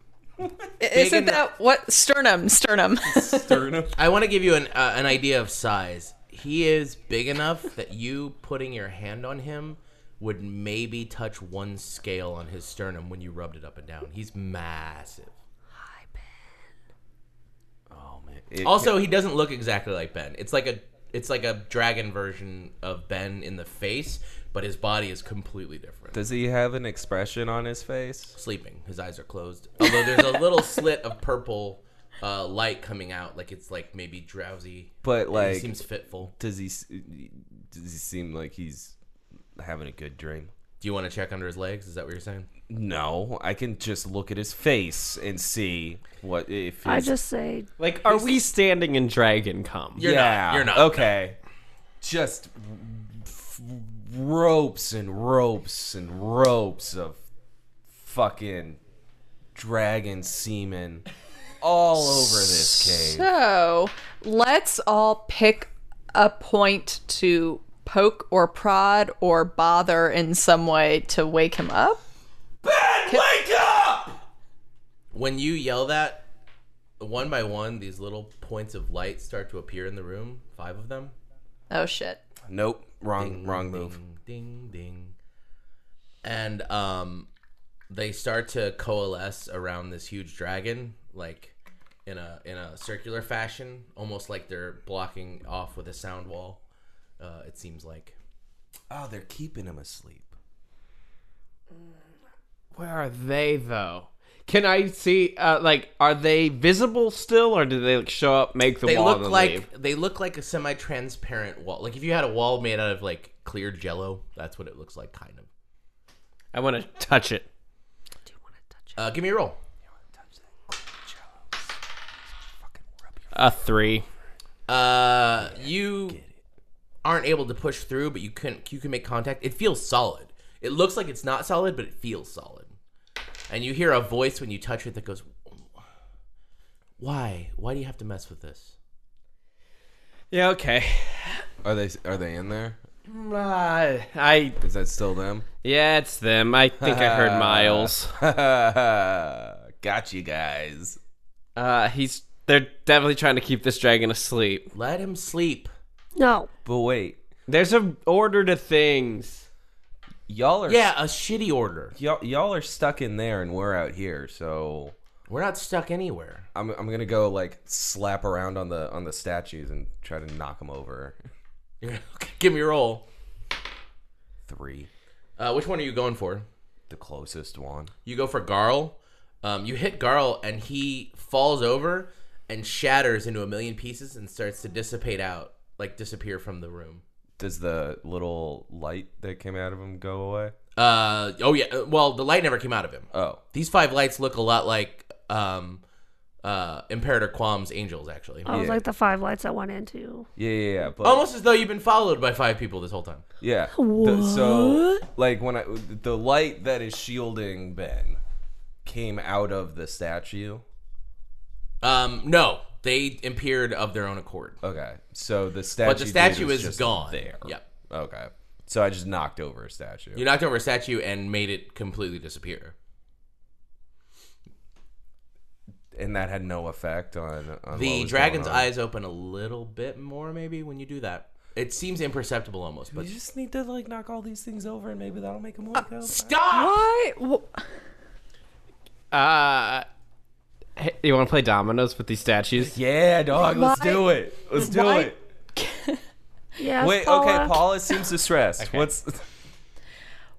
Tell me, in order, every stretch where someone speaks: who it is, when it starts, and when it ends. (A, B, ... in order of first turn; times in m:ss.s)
0:00.4-0:00.7 A
0:00.8-0:03.6 B
0:00.9-0:01.5 C
0:03.0-0:03.9 A
0:03.9-0:15.4 C
0:17.9-0:18.9 A
0:18.6-0:26.2 C
0:26.1-0:28.4 A
0:28.4-0:36.3 C
0:35.0-0:35.8 A
0:36.3-0:38.9 A
0:39.6-0:40.5 A
0:40.8-0:42.5 C
0:42.7-0:47.1 A
0:46.8-0:47.7 D
0:47.8-0:50.0 E
0:48.0-0:48.4 C
0:50.0-0:51.1 C
0:50.0-0:51.4 A
0:52.0-0:57.2 A
0:57.9-0:58.8 A
0:59.5-1:01.0 A
1:01.6-1:03.3 A
1:02.1-1:12.0 B
1:12.6-1:14.2 A
1:15.1-1:16.3 C
1:17.0-1:21.1 C
1:21.7-1:22.2 B
1:22.5-1:24.0 A
1:23.2-1:25.1 C
1:26.2-1:27.3 C
1:27.9-1:31.5 C
1:32.0-1:36.6 C
1:37.2-1:38.2 C
1:38.9-1:40.3 A
1:42.7-1:49.6 E
1:48.8-1:55.5 C
1:56.5-1:57.5 E
1:59.0-1:59.6 C
2:00.1-2:01.7 A
2:02.6-2:03.3 A
2:03.3-2:04.0 E
2:04.7-2:06.2 C
2:05.4-2:06.3 A
2:07.0-2:12.8 C
2:13.5-2:15.4 C
2:17.0-2:18.8 C
2:20.3-2:21.4 E
2:21.6-2:22.8 A
2:23.0-2:24.6 E
2:24.6-2:25.5 A
2:25.6-2:28.1 E
2:26.8-2:31.0 A
2:31.6-2:34.7 E
2:34.7-2:35.7 C
2:36.2-2:36.5 D
2:36.6-2:37.2 A
2:37.5-2:39.4 E
2:40.3-2:40.9 A
2:40.7-2:41.9 C
2:41.9-2:44.9 A
2:45.3-2:46.5 C
2:46.5-2:51.3 A
2:51.8-2:53.0 C
2:54.5-2:54.9 A
2:55.4-2:56.5 C
2:56.9-2:57.9 A
2:58.0-3:07.0 C
3:07.4-3:10.5 A
3:10.8-3:15.8 C
3:13.1-3:13.4 A
3:16.4-3:18.5 C
3:18.4-3:20.3 D
3:18.5-3:18.8 A
3:20.4-3:21.3 A
3:21.0-3:23.2 C
3:23.4-3:28.2 A
3:23.8-3:25.0 D
3:28.8-3:30.6 A
3:31.8-3:34.6 C
3:34.6-3:40.2 A
3:35.8-3:37.6 C
3:40.1-3:42.7 C
3:45.9-3:48.7 A
3:47.7-3:53.1 C
3:52.9-3:56.4 A
3:56.0-3:56.8 C
3:56.5-3:57.5 B
3:59.1-3:59.8 E
4:00.8-4:02.8 E
4:02.6-4:05.2 A
4:03.3-4:06.0 B
4:06.6-4:07.7 D
4:06.8-4:09.2 A
4:08.6-4:08.8 E